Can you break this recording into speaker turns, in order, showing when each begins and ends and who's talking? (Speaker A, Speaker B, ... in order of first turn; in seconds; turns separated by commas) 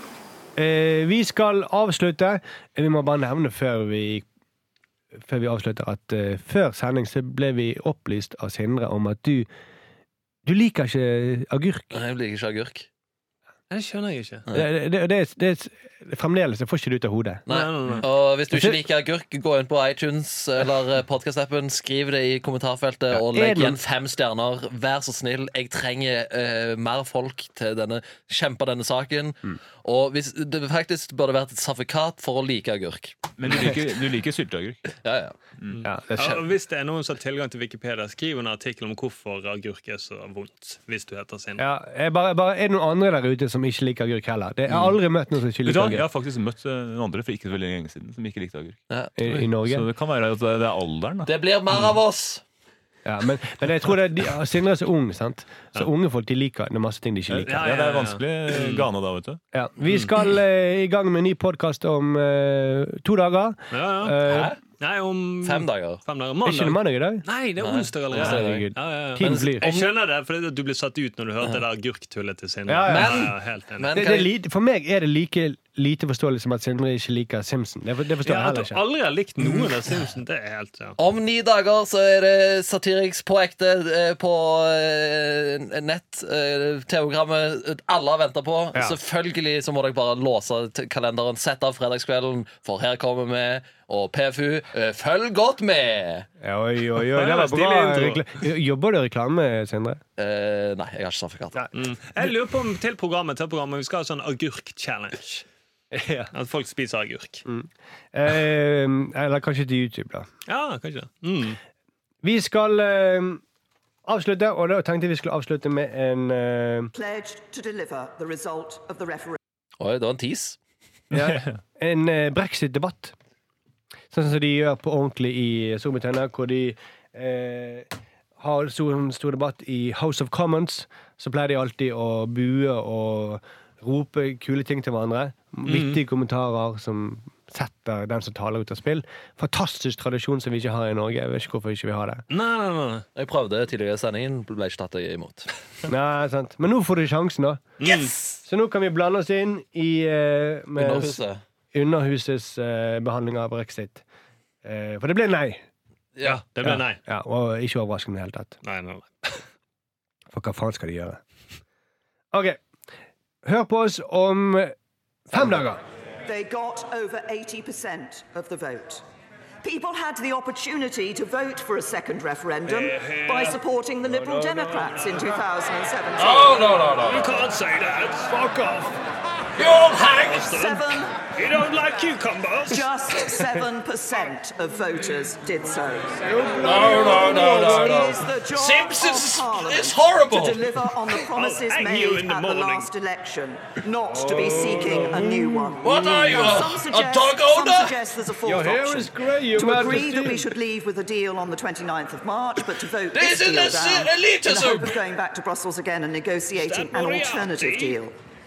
Speaker A: 0.6-4.2, Speaker A: 5.2-9.5, Speaker A: 10.4-11.9, Speaker B: 11.9-12.9, Speaker C: 13.7-14.4, Speaker A: 14.5-17.4, Speaker B: 17.5-33.7, Speaker C: 17.5-18.1, Speaker A: 18.5-18.8, Speaker A: 23.1-23.8, Speaker D: 33.4-34.9, Speaker B: 35.0-35.3, Speaker C: 35.7-41.6, Speaker A: 35.8-36.5, Speaker A: 41.6-46.0, Speaker B: 44.7-44.9, Speaker D: 45.6-51.3, Speaker A: 49.2-49.9, Speaker B: 51.2-52.4, Speaker A: 53.0-57.7, Speaker D: 57.3-59.4, Speaker C: 57.5-58.9, Speaker A: 59.5-64.5, Speaker C: 63.7-73.9, Speaker B: 64.2-64.6, Speaker B: 65.4-66.0, Speaker A: 66.4-67.2, Speaker B: 67.6-68.7, Speaker A: 68.1-69.7, Speaker B: 69.2-69.9, Speaker A: 72.7-73.3, Speaker B: 72.8-74.3, Speaker A: 73.9-78.8, Speaker C: 78.2-81.0, Speaker B: 81.0-96.3, Speaker A: 96.4-100.0, Speaker C: 97.1-98.2, Speaker B: 100.2-101.7, Speaker C: 101.7-105.4, Speaker A: 105.9-106.3, Speaker C: 106.3-107.4, Speaker A: 107.5-110.3, Speaker C: 110.5-111.6, Speaker A: 112.2-113.4, Speaker A: 114.0-116.9, Speaker E: 116.9-119.4, Speaker B: 119.8-120.6, Speaker D: 121.1-121.6, Speaker A: 121.1-123.1, Speaker A: 124.1-127.9, Speaker A: 128.4-142.2, Speaker C: 135.7-136.0, Speaker C: 142.3-143.0, Speaker B: 143.1-145.5, Speaker A: 145.9-147.7, Speaker C: 147.8-148.1, Speaker A: 148.4-151.2, Speaker B: 150.8-151.4, Speaker A: 151.7-154.0, Speaker A: 154.6-155.6, Speaker C: 156.2-157.0, Speaker A: 156.6-158.6, Speaker C: 158.6-159.4, Speaker A: 160.3-161.2, Speaker A: 162.3-162.6, Speaker A: 163.4-164.7, Speaker A: 165.3-165.8, Speaker E: 166.2-169.0, Speaker E: 169.6-177.0, Speaker C: 172.7-173.6, Speaker C: 177.0-178.3, Speaker A: 178.3-178.9, Speaker B: 179.6-180.3, Speaker E: 179.7-181.2, Speaker C: 180.1-182.8, Speaker E: 182.7-208.1, Speaker A: 186.3-187.0, Speaker B: 188.6-190.6, Speaker C: 191.3-192.9, Speaker A: 194.1-195.7, Speaker B: 195.8-197.9, Speaker A: 198.4-200.5, Speaker B: 203.1-204.9, Speaker C: 206.5-208.0